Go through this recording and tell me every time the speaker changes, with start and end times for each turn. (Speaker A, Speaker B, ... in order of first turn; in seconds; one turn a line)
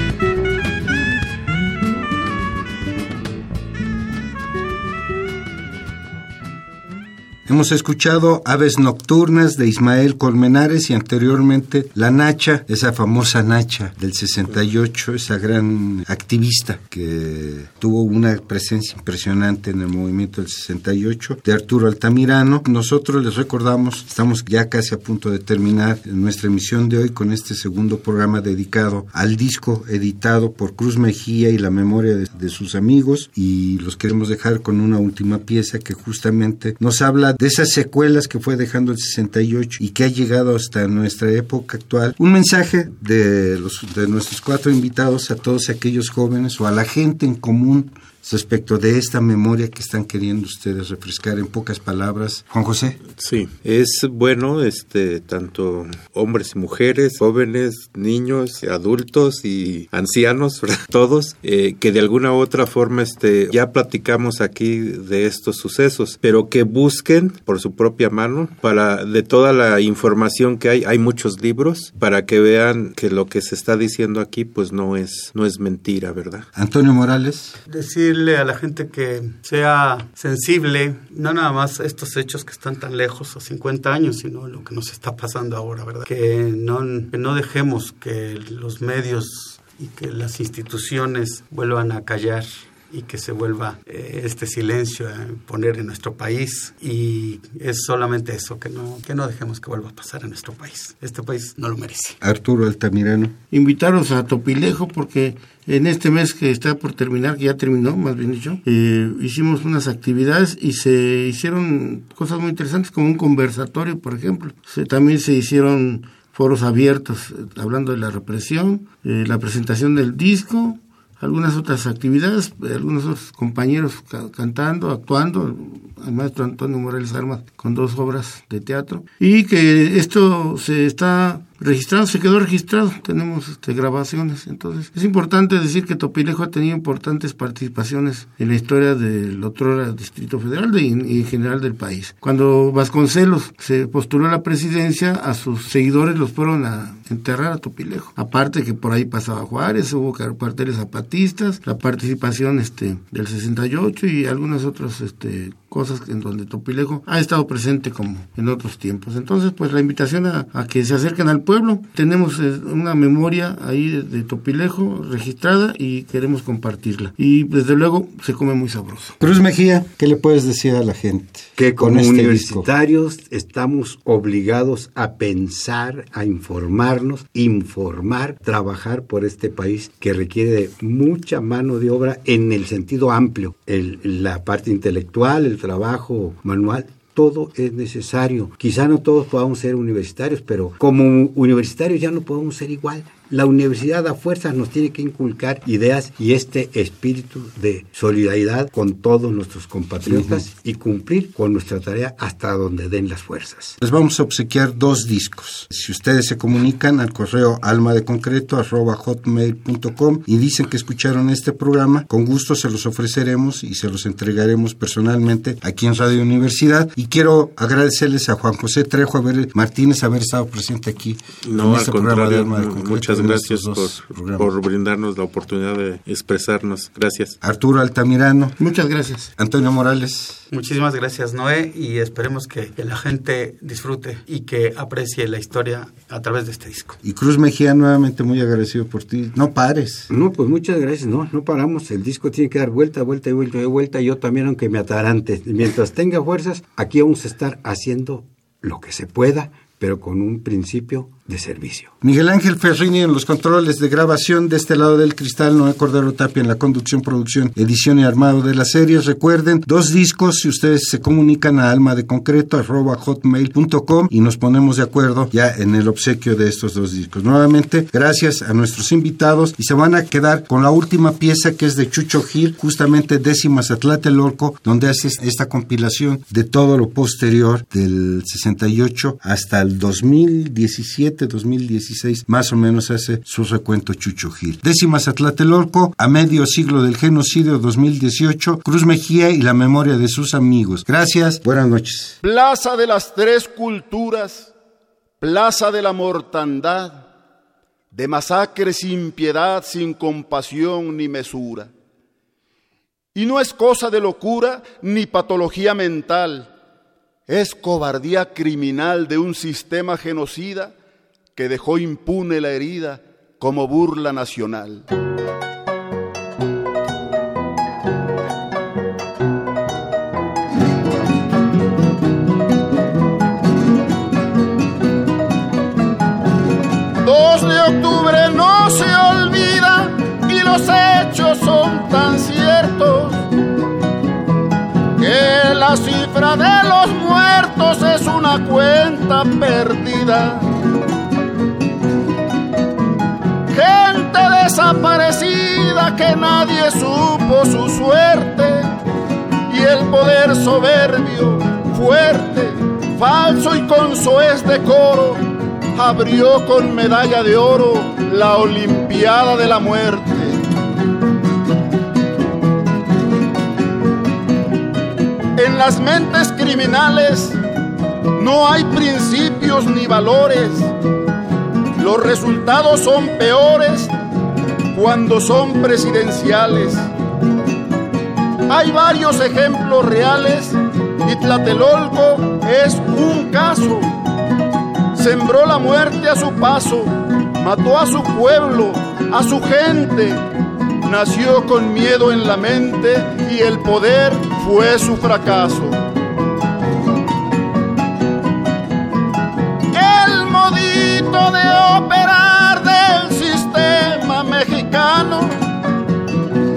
Speaker A: 7.5-53.0
Speaker B: 53.2-76.5
Speaker A: 76.5-77.5
Speaker C: 77.7-102.2
Speaker A: 102.2-103.3
Speaker D: 103.5-169.2
Speaker A: 169.2-172.7
Speaker E: 171.6-203.8
Speaker A: 200.0-200.4
Speaker A: 203.8-224.5
Speaker B: 221.4-227.4
Speaker A: 227.4-228.6
Speaker D: 228.6-229.3
Speaker A: 229.4-230.4
Speaker C: 230.5-237.0
Speaker A: 237.0-240.1
Speaker E: 240.1-251.9
Speaker A: 252.0-292.2
Speaker F: 292.2-294.5
Speaker F: 295.2-297.1
Speaker F: 297.9-301.7
Speaker F: 303.1-306.5
Speaker F: 307.3-310.7
Speaker F: 311.4-314.9
Speaker F: 327.0-333.2
Speaker F: 335.0-340.4
Speaker F: 343.5-348.7
Speaker F: 349.5-355.2
Speaker F: 355.8-360.4
Speaker F: 365.4-367.4
Speaker F: 368.2-370.7
Speaker F: 371.8-373.9
Speaker F: 374.7-376.9
Speaker F: 378.5-383.9
Speaker F: 384.9-390.2
Speaker F: 390.8-395.8
Speaker F: 399.7-405.4